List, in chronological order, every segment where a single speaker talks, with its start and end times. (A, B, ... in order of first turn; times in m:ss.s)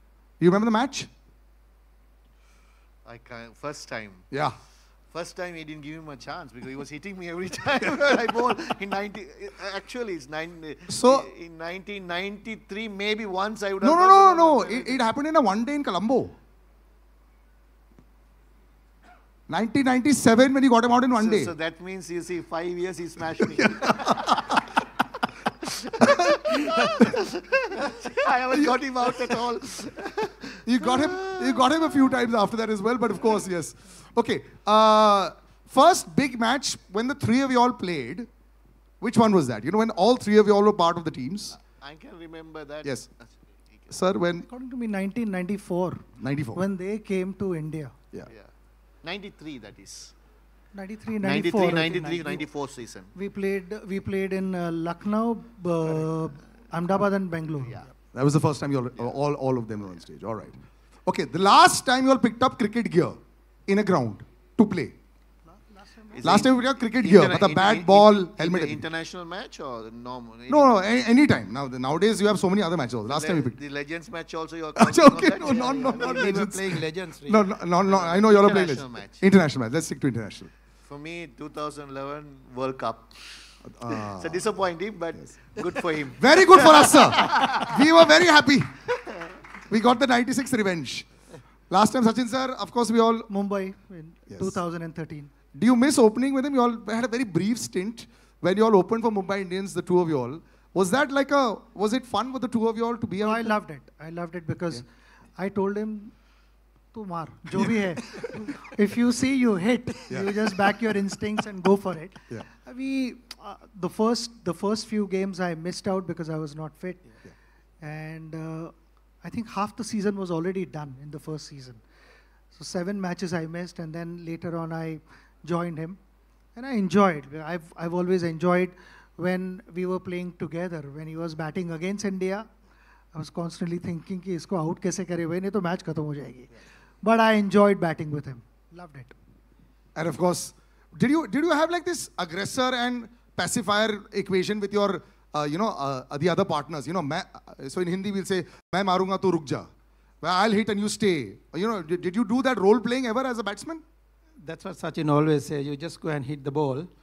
0:00.4-0:01.1 A
0:03.0-0:04.3 B
0:05.1-0:15.0 B
0:10.9-0:11.3 A
0:13.8-0:16.3 A
0:19.5-0:21.5 A
0:21.2-0:24.6 B
0:23.8-0:24.5 A
0:25.6-0:31.7 B
0:30.6-0:38.3 A
0:39.0-0:41.6 A
0:41.6-0:43.5 B
0:43.9-0:44.5 A
0:44.5-0:48.0 C
0:46.2-0:46.6 A
0:49.0-0:50.2 B
0:50.7-0:52.5 C
0:51.2-0:53.2 B
0:53.2-0:57.8 C
0:57.6-0:57.9 B
0:58.1-1:05.0 A
1:05.4-1:06.4 C
1:06.1-1:10.9 B
1:06.2-1:08.8 A
1:10.5-1:13.6 A
1:13.1-1:16.4 B
1:14.8-1:20.5 A
1:15.4-1:17.5 D
1:17.9-1:19.2 B
1:20.8-1:27.7 B
1:23.6-1:24.6 A
1:25.2-1:28.8 A
1:29.7-1:31.1 A
1:31.7-1:33.3 A
1:33.3-1:35.3 C
1:34.3-1:34.6 A
1:35.5-1:43.6 A
1:43.2-1:46.1 C
1:46.9-1:57.1 C
1:50.1-1:50.4 A
1:57.8-2:01.8 C
2:02.6-2:06.0 C
2:06.6-2:12.5 C
2:13.1-2:19.1 C
2:20.0-2:29.7 A
2:30.2-2:33.8 A
2:34.4-2:36.9 D